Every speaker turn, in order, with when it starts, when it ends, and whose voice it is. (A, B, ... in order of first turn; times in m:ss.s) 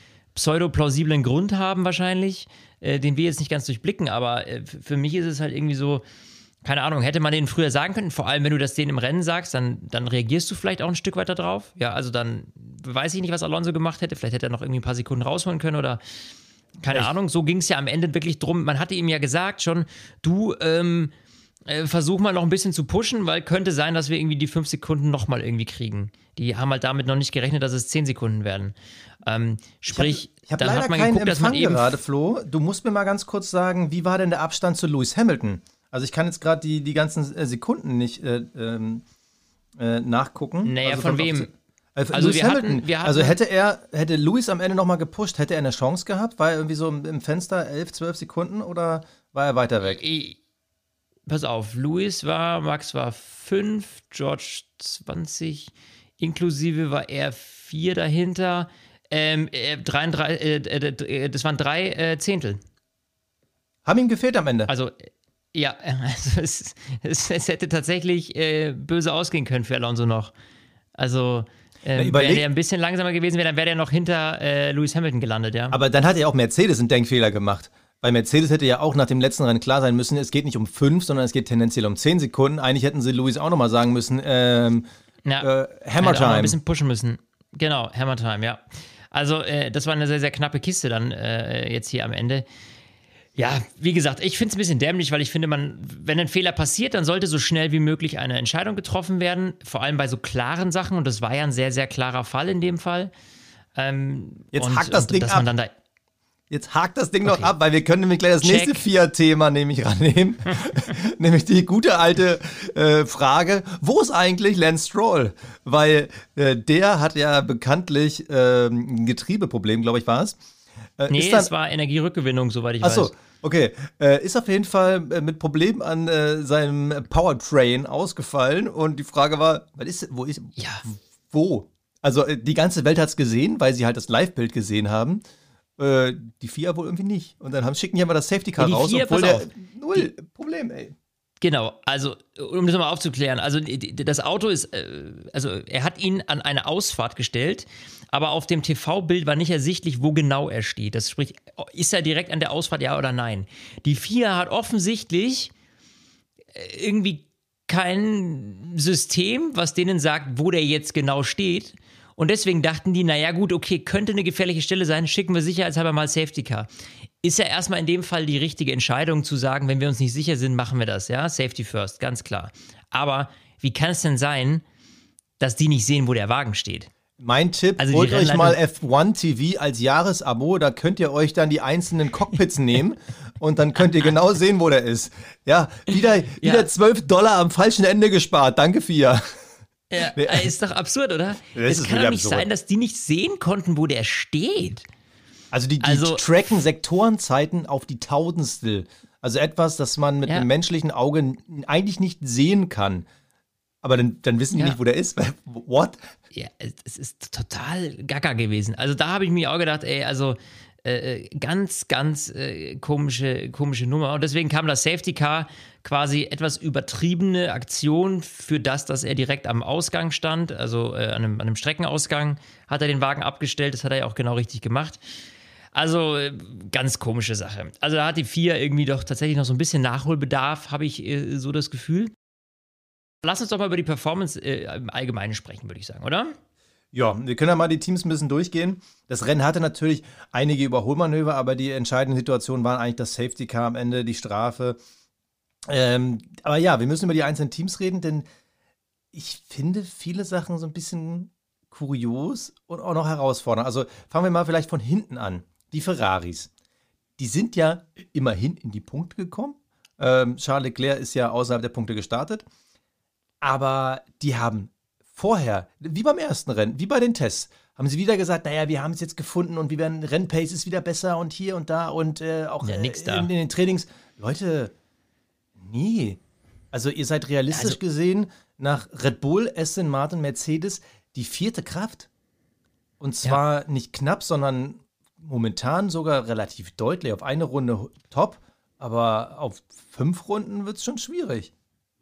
0:00.3-0:06.0 A
0:06.6-0:16.0 A
0:16.8-0:21.1 A
0:21.7-0:32.0 A
0:29.9-0:39.0 B
0:39.8-0:50.0 B
0:40.6-0:41.5 A
0:42.1-0:43.4 A
0:49.8-0:50.4 A
0:51.3-1:02.6 A
1:03.8-1:04.7 B
1:04.7-1:10.3 A
1:11.0-1:15.8 A
1:12.0-1:12.5 B
1:15.7-1:24.9 B
1:25.3-1:32.5 A
1:25.4-1:26.6 B
1:33.4-1:43.1 A
1:43.8-1:45.7 A
1:44.5-1:45.5 B
1:46.5-2:00.4 B
1:48.4-1:48.8 A
2:01.0-2:01.5 B
2:01.1-2:03.1 A
2:02.8-2:15.2 B
2:10.6-2:10.8 A
2:15.8-2:21.0 B
2:18.6-2:20.1 A
2:21.4-2:35.5 A
2:36.5-2:46.7 A
2:47.2-2:54.6 A
2:55.4-2:56.9 A
2:57.2-3:09.2 B
2:57.8-2:58.6 A
3:06.4-3:06.7 A
3:09.9-3:14.9 A
3:10.2-3:10.5 B
3:11.5-3:12.5 B
3:15.5-3:23.1 B
3:15.8-3:16.3 A
3:23.8-3:26.0 B
3:26.3-3:45.0 A
3:45.7-3:52.1 A
3:53.2-3:56.4 A
3:56.9-4:04.8 B
4:05.7-4:08.2 B
4:09.1-4:16.5 B
4:17.2-4:22.5 B
4:23.4-4:34.7 B
4:32.6-4:33.3 A
4:35.6-4:36.2 B
4:36.7-4:42.1 B
4:37.5-4:37.8 A
4:43.0-4:51.5 B